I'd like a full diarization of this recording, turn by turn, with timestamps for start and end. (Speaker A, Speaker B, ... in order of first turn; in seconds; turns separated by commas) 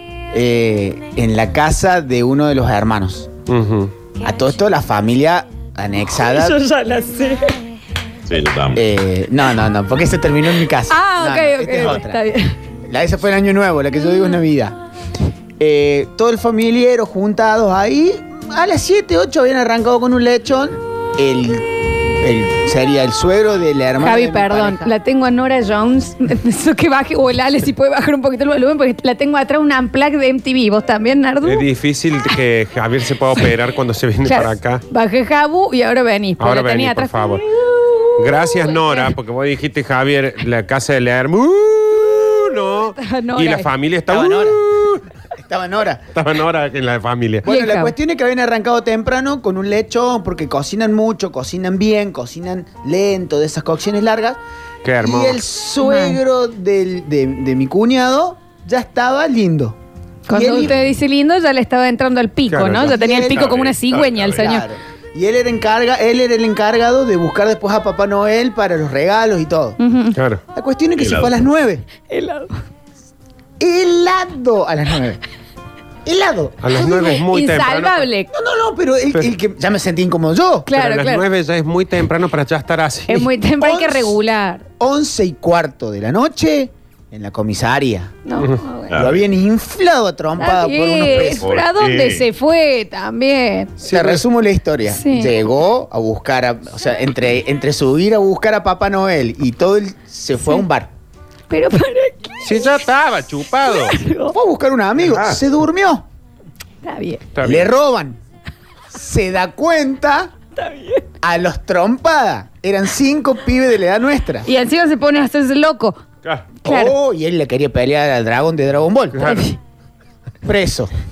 Speaker A: 0.3-3.3, Speaker B: 3.5-3.9, Speaker A: 4.2-6.6, Speaker C: 6.2-7.5, Speaker D: 8.3-8.8, Speaker A: 8.8-12.2, Speaker C: 10.9-12.5, Speaker A: 12.9-14.8, Speaker A: 15.6-24.9, Speaker C: 24.0-31.6, Speaker B: 31.4-34.8, Speaker C: 34.2-39.1, Speaker B: 36.4-37.4, Speaker B: 38.2-45.0, Speaker C: 42.9-43.7, Speaker A: 44.1-44.6, Speaker A: 45.4-46.0, Speaker B: 46.1-47.5, Speaker A: 47.5-54.4, Speaker C: 47.5-47.9, Speaker B: 54.8-55.4, Speaker A: 55.0-59.8, Speaker C: 55.8-56.2, Speaker A: 60.3-60.8, Speaker C: 60.3-64.7, Speaker B: 62.5-63.0, Speaker A: 62.9-63.5, Speaker D: 63.3-64.5, Speaker A: 64.3-69.8, Speaker C: 69.8-70.2, Speaker B: 70.2-70.4, Speaker A: 70.5-71.8, Speaker D: 71.0-71.4, Speaker C: 72.1-72.5, Speaker A: 73.6-75.2, Speaker A: 76.0-76.6, Speaker B: 76.6-78.1, Speaker C: 76.7-78.3, Speaker A: 78.3-80.7, Speaker C: 80.7-81.2, Speaker B: 80.7-83.3, Speaker C: 83.1-84.7, Speaker A: 83.6-84.1, Speaker A: 84.8-88.2, Speaker C: 88.3-89.0, Speaker D: 88.9-89.3, Speaker A: 89.0-91.5, Speaker C: 90.4-93.7, Speaker D: 91.1-92.2, Speaker B: 93.8-94.2, Speaker A: 93.8-100.9, Speaker C: 94.9-95.3, Speaker C: 101.5-102.7, Speaker B: 102.4-104.0, Speaker C: 103.6-104.3, Speaker A: 104.3-106.0, Speaker D: 105.0-105.4, Speaker C: 106.8-107.3, Speaker B: 107.3-107.7, Speaker A: 107.4-108.2, Speaker A: 108.9-110.3, Speaker C: 110.6-111.0, Speaker A: 111.2-114.5, Speaker C: 114.5-116.0, Speaker B: 116.2-116.5, Speaker A: 116.6-119.2, Speaker C: 116.7-117.0, Speaker B: 119.1-119.5, Speaker C: 119.2-119.6, Speaker A: 120.4-120.9